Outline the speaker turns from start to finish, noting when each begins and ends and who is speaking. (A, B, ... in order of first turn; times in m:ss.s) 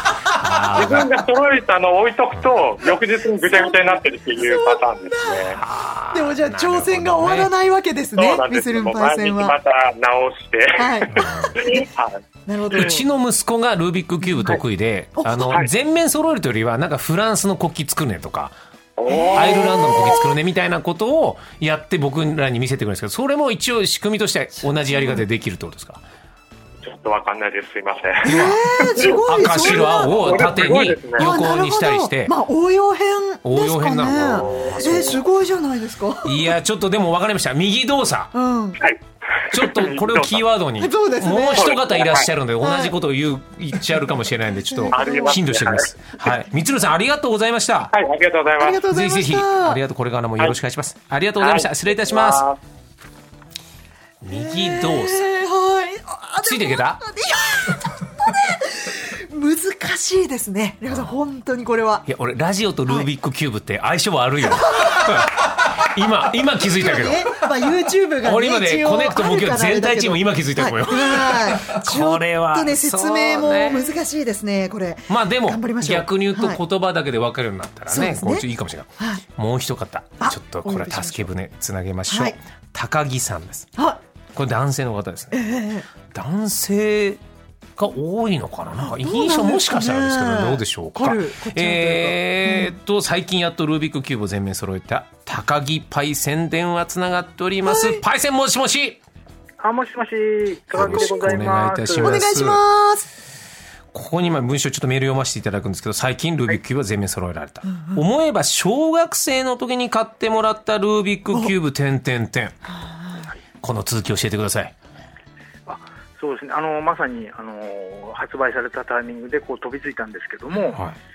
0:00.3-0:01.2 A
0:00.7-0:05.6 B
0:03.4-0:05.6 C
0:05.5-0:07.5 A
0:06.1-0:09.6 C
0:08.2-0:12.2 B
0:10.8-0:11.8 C
0:11.2-0:11.6 A
0:12.5-0:13.0 C
0:12.7-0:18.5 A
0:15.2-0:15.5 C
0:19.0-0:20.2 B
0:19.1-0:19.8 C
0:19.3-0:26.0 A
0:24.9-0:25.2 C
0:26.8-0:31.3 B
0:28.2-0:30.6 C
0:28.2-0:32.3 A
0:31.2-0:36.4 C
0:33.4-0:35.2 A
0:34.4-0:35.2 B
0:36.2-0:38.3 A
0:38.3-0:38.8 C
0:38.8-0:40.4 B
0:39.5-0:47.9 A
0:40.8-0:41.8 C
0:41.5-0:42.3 B
0:42.6-0:42.9 C
0:44.7-0:45.4 C
0:44.9-0:45.9 B
0:47.9-0:48.8 B
0:48.6-0:49.8 C
0:48.8-0:52.4 A
0:51.4-0:52.6 B
0:54.2-0:55.2 A
0:54.3-1:02.0 C
0:56.4-0:57.0 A
1:00.9-1:01.1 A
1:02.1-1:07.4 A
1:04.5-1:05.3 C
1:06.7-1:16.6 C
1:08.2-1:13.9 A
1:15.1-1:23.7 A
1:17.9-1:18.4 C
1:20.2-1:21.3 C
1:22.1-1:22.4 C
1:24.3-1:25.4 A
1:25.3-1:25.9 C
1:26.1-1:27.2 A
1:27.8-1:39.0 A
1:28.8-1:32.7 C
1:37.6-1:38.0 C
1:39.6-1:42.3 D
1:40.7-1:42.6 A
1:42.0-1:43.1 C
1:43.9-1:52.6 A
1:47.7-1:48.0 C
1:52.8-1:53.2 C
1:53.6-1:54.7 A
1:55.7-2:00.8 D
2:00.7-2:01.0 A